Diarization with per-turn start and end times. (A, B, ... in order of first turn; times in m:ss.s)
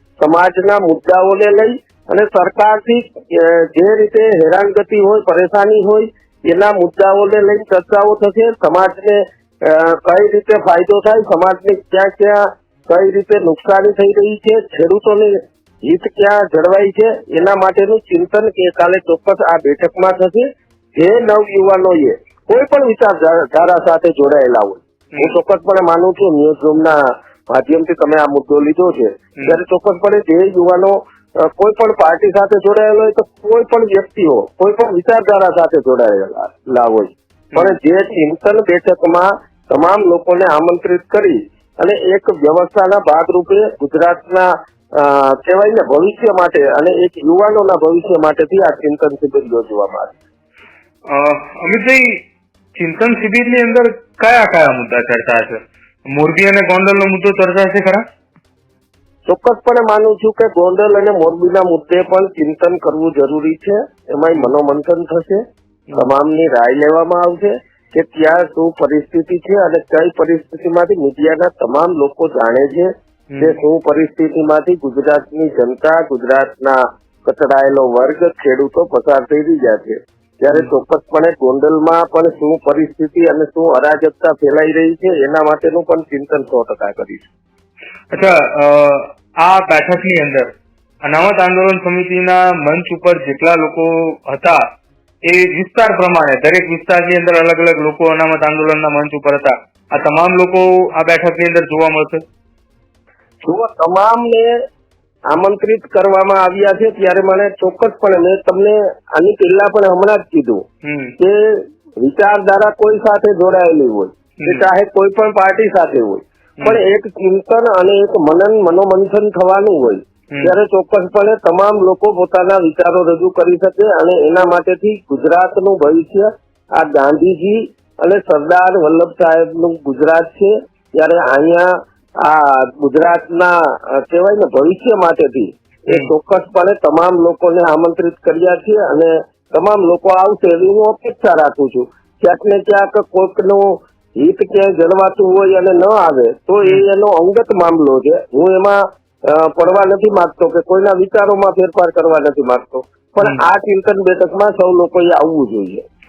0:00.2-0:50.2 A
0:51.1-0:52.2 B
0:52.8-0:58.0 B
0:59.3-1:05.4 A
1:05.9-1:27.3 A
1:13.3-1:13.6 B
1:28.1-1:30.5 B
1:31.0-1:34.6 B
1:35.2-1:42.2 B
1:43.4-1:44.5 A
1:45.3-1:50.6 A
1:50.8-1:51.2 B
1:51.2-2:35.8 A
1:54.4-1:54.7 B